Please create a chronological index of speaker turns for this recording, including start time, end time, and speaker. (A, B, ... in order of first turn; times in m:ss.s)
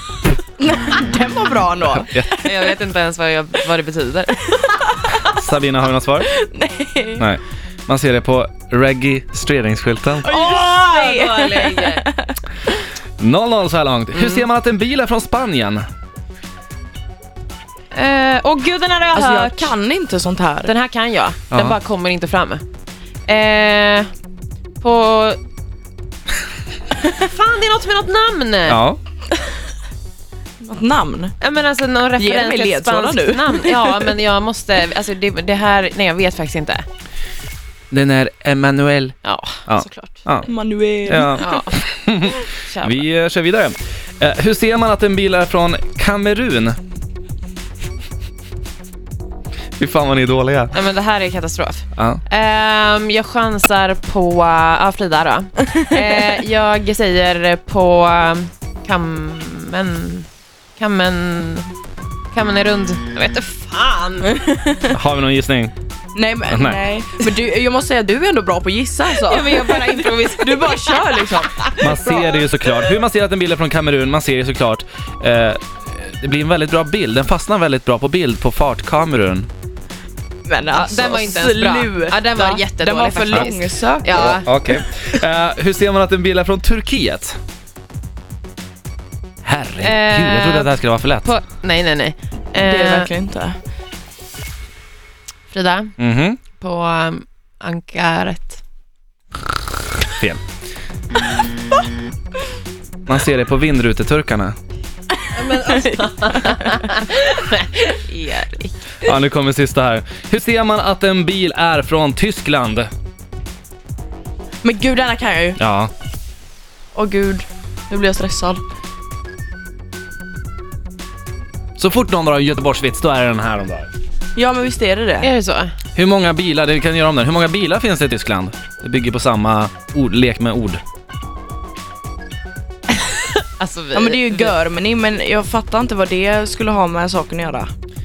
0:00.6-0:02.8 A
0:01.9-0:02.3 B
0:02.4-0:05.2 C
0:05.2-0:06.3 B
0:06.2-0:07.2 A
0:07.2-0:10.3 B
0:10.2-0:12.4 A
0:10.3-0:12.1 C
0:13.2-0:15.8 B
0:14.1-0:14.5 C
0:17.9-0:19.7 C
0:19.1-0:20.7 A
0:20.6-0:22.6 C
0:21.5-0:21.8 B
0:23.3-0:24.1 C
0:24.8-0:25.4 C
0:27.0-0:28.8 C
0:28.7-0:29.0 B
0:30.6-0:31.4 A
0:31.4-0:36.9 C
0:32.2-0:34.2 A
0:37.9-0:39.2 B
0:39.2-0:40.1 C
0:39.7-0:40.5 B
0:40.5-0:41.4 A
0:41.1-0:46.8 B
0:41.4-0:41.8 C
0:42.5-0:43.1 C
0:49.8-0:50.7 B
0:50.7-1:01.7 C
0:52.0-0:52.2 B
1:02.3-1:04.5 C
1:04.4-1:05.0 A
1:04.9-1:05.7 B
1:06.1-1:12.3 A
1:06.5-1:06.8 B
1:09.1-1:12.2 C
1:11.8-1:19.5 B
1:20.4-1:24.4 A
1:20.7-1:24.5 C
1:24.1-1:27.4 B
1:29.4-1:31.3 B
1:29.8-1:30.7 C
1:31.2-1:33.1 C
1:32.6-1:33.6 A
1:35.5-1:35.9 C
1:36.0-1:36.4 B
1:36.6-1:38.6 C
1:40.1-1:40.4 B
1:43.1-1:44.6 B
1:45.3-1:49.0 C
1:45.6-1:46.7 A
1:49.0-1:52.9 B
1:54.6-1:55.6 A
1:55.6-1:55.9 B
1:56.9-1:58.6 A
2:01.8-2:03.9 B
2:04.4-2:05.3 A
2:05.2-2:05.8 C
2:06.0-2:10.8 B
2:13.0-2:14.6 C
2:13.9-2:17.7 A